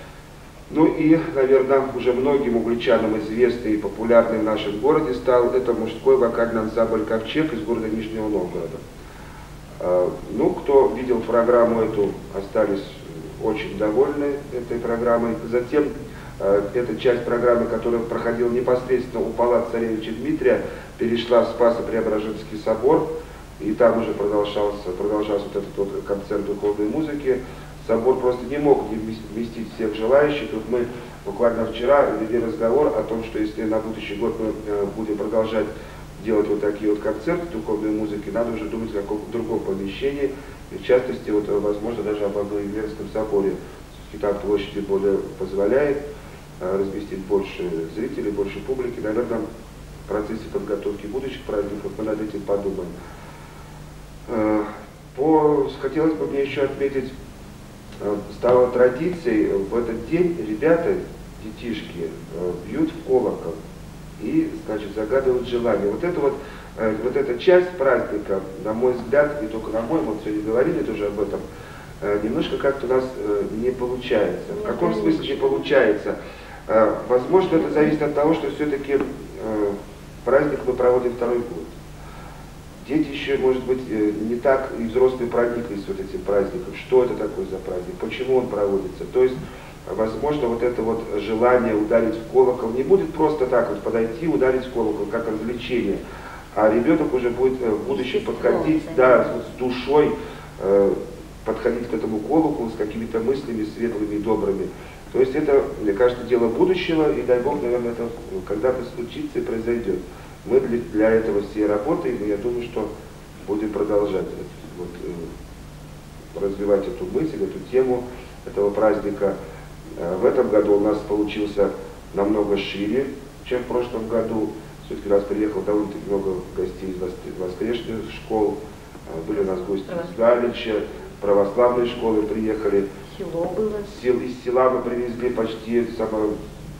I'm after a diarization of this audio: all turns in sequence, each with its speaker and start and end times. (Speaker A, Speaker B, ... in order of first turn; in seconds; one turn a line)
Speaker A: 0.7-8.8
Speaker A: 9.8-23.1
Speaker A: 23.6-46.0
Speaker A: 46.6-49.5
Speaker A: 50.1-52.9
Speaker A: 54.3-57.1
Speaker A: 58.0-63.6
Speaker A: 64.2-71.5
Speaker A: 72.0-76.2
Speaker B: 74.5-75.6
Speaker A: 76.7-81.7
Speaker A: 82.8-96.0
Speaker A: 96.5-112.9
Speaker B: 97.9-99.3
Speaker A: 113.5-115.3
Speaker A: 116.3-119.4
Speaker A: 120.0-132.9
Speaker B: 129.3-130.2
Speaker B: 133.1-134.0
Speaker A: 133.9-136.3